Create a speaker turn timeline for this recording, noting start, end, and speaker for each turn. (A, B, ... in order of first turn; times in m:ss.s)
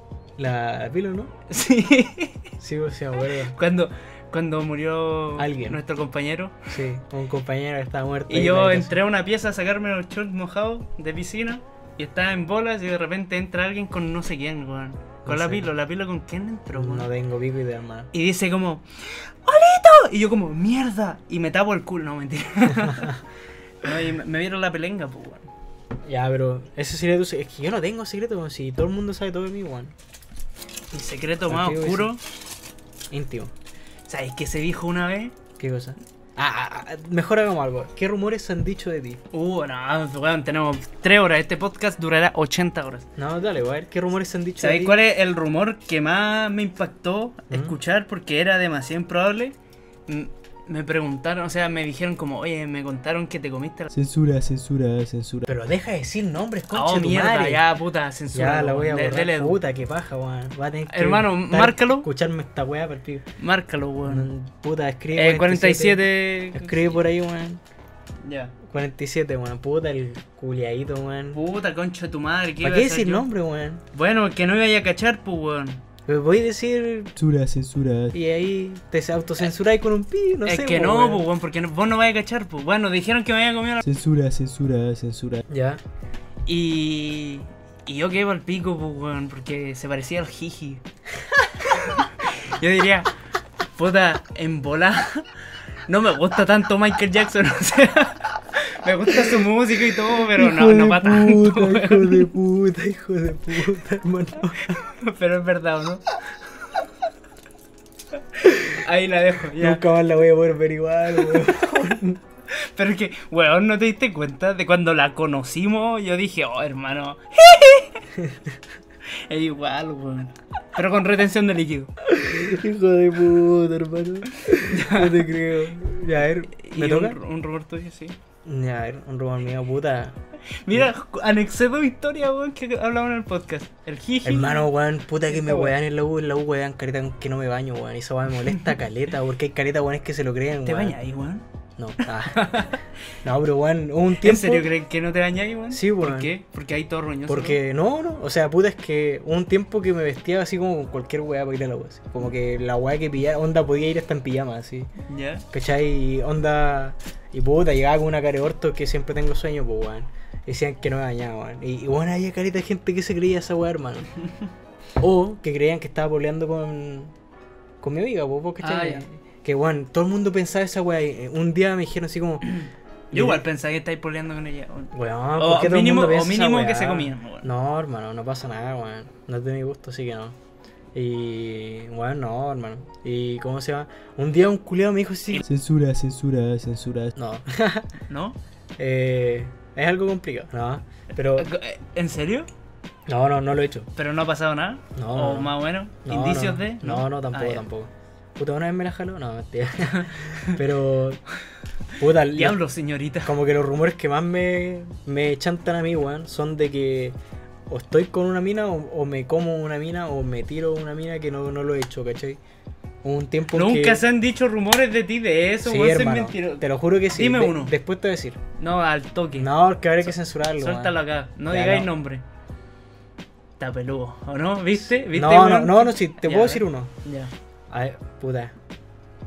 0:00.4-0:01.3 A
0:01.5-0:02.5 B
0:02.6-0:03.6 A
0:03.4-0:06.7 B
0:05.4-0:05.8 A
0:06.7-0:09.0 A
0:08.3-0:17.1 B
0:15.2-0:15.7 A
0:16.7-0:18.1 A
0:18.1-0:23.2 B
0:22.9-0:23.1 A
0:23.8-0:25.5 B
0:26.0-0:29.9 A
0:30.9-0:32.2 B
0:31.4-0:32.1 A
0:33.1-0:33.5 A
0:34.1-0:35.3 B
0:35.6-0:39.2 A
0:39.3-0:43.0 B
0:43.2-0:45.0 A
0:44.6-0:49.5 B
0:47.5-0:47.8 A
0:50.1-0:53.9 B
0:53.9-0:55.5 C
0:55.4-0:57.6 A
0:56.7-0:59.6 B
0:58.3-1:03.2 A
1:00.9-1:02.1 B
1:03.4-1:04.3 B
1:04.0-1:07.6 A
1:05.1-1:07.0 B
1:08.2-1:08.5 B
1:08.6-1:11.4 A
1:11.3-1:13.3 B
1:12.6-1:13.8 A
1:13.9-1:15.8 B
1:16.0-1:17.2 A
1:17.2-1:18.2 C
1:18.1-1:21.2 A
1:20.4-1:23.8 B
1:23.8-1:25.4 C
1:25.5-1:25.8 A
1:26.4-1:30.8 B
1:31.7-1:33.1 B
1:33.7-1:35.2 B
1:35.9-1:42.3 B
1:40.1-1:44.8 A
1:44.7-1:46.1 B
1:48.4-1:49.8 B
1:49.6-1:52.2 A
1:52.5-1:58.0 B
1:58.2-1:58.5 A
1:59.3-2:01.9 B
2:02.1-2:07.2 A
2:04.5-2:05.3 B
2:06.6-2:08.2 B
2:08.4-2:10.2 A
2:10.5-2:14.7 B
2:14.2-2:21.0 A
2:15.3-2:15.7 B
2:20.6-2:21.4 B
2:21.8-2:22.7 A
2:22.0-2:22.8 B
2:23.2-2:24.7 A
2:24.2-2:27.6 B
2:25.7-2:26.3 A
2:27.3-2:34.9 A
2:35.1-2:35.4 B
2:35.5-2:44.1 A
2:45.0-2:47.1 A
2:47.8-2:52.5 A
2:48.6-2:49.0 B
2:52.4-2:57.5 B
2:53.1-2:53.4 A
2:54.9-3:00.4 A
3:00.9-3:05.4 A
3:05.4-3:07.1 C
3:07.2-3:07.9 A
3:08.1-3:08.4 B
3:08.8-3:11.5 A
3:11.3-3:12.5 B
3:13.1-3:13.9 A
3:14.0-3:17.6 B
3:14.9-3:21.2 A
3:19.8-3:20.6 B
3:22.0-3:22.6 A
3:22.3-3:23.3 B
3:23.2-3:27.2 A
3:27.7-3:32.4 A
3:33.0-3:34.0 A
3:33.5-3:37.7 B
3:35.6-3:38.4 A
3:38.6-3:39.5 B
3:39.4-3:41.9 A
3:40.0-3:42.2 B
3:43.6-3:47.3 B
3:44.8-3:46.9 A
3:47.7-3:48.5 A